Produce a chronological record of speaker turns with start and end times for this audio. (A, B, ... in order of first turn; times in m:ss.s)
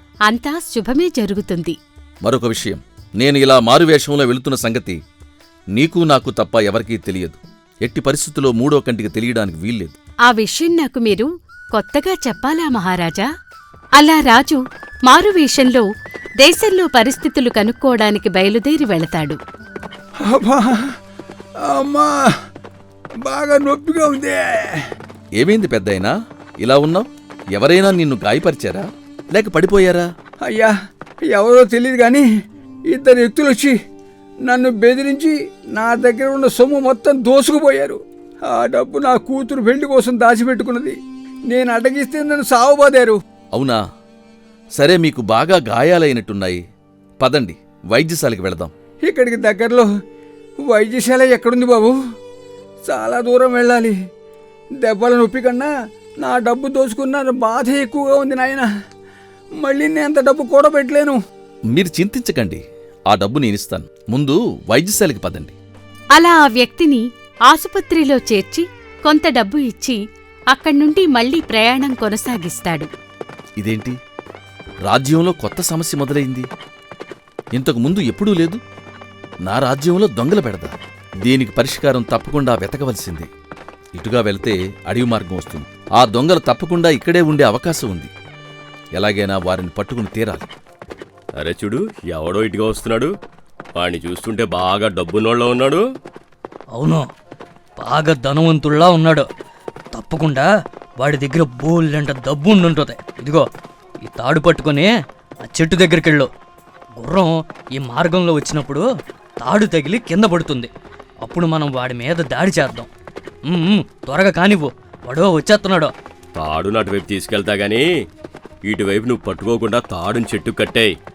0:00.3-0:01.8 A
0:02.2-0:05.0 B
0:05.8-0:09.9 B
0:10.3-0:13.2 A
0:14.0-0:15.9 A
0:16.4-0:19.4 A
0:20.3-0:20.8 C
0:21.6-0:22.2 C
0:23.2-0:24.7 C
0:25.4-0:30.1 B
0:30.4-0:30.7 C
0:31.3-0:32.2 C
0:32.9-0:33.8 C
0:34.5-0:41.0 C
0:41.5-0:43.2 C
0:44.8-0:46.6 B
0:47.2-0:48.7 B
0:49.0-0:49.9 C
0:50.7-0:51.9 C
0:52.8-0:54.0 C
0:54.8-0:58.7 C
0:59.6-1:01.2 C
1:01.7-1:05.5 B
1:06.2-1:10.0 A
1:10.5-1:12.9 A
1:13.6-1:14.0 B
1:14.9-1:16.5 B
1:17.6-1:18.6 B
1:19.5-1:20.7 B
1:21.2-1:23.3 B
1:24.0-1:28.1 B
1:29.0-1:30.5 B
1:31.4-1:33.1 D
1:33.8-1:35.8 D
1:36.8-1:37.1 E
1:37.8-1:39.3 E
1:39.9-1:43.5 E
1:44.0-1:46.3 E
1:47.0-1:48.9 E
1:49.4-1:50.7 E
1:51.2-1:52.9 E
1:53.5-1:55.9 E
1:56.4-1:57.9 D
1:58.7-2:00.9 D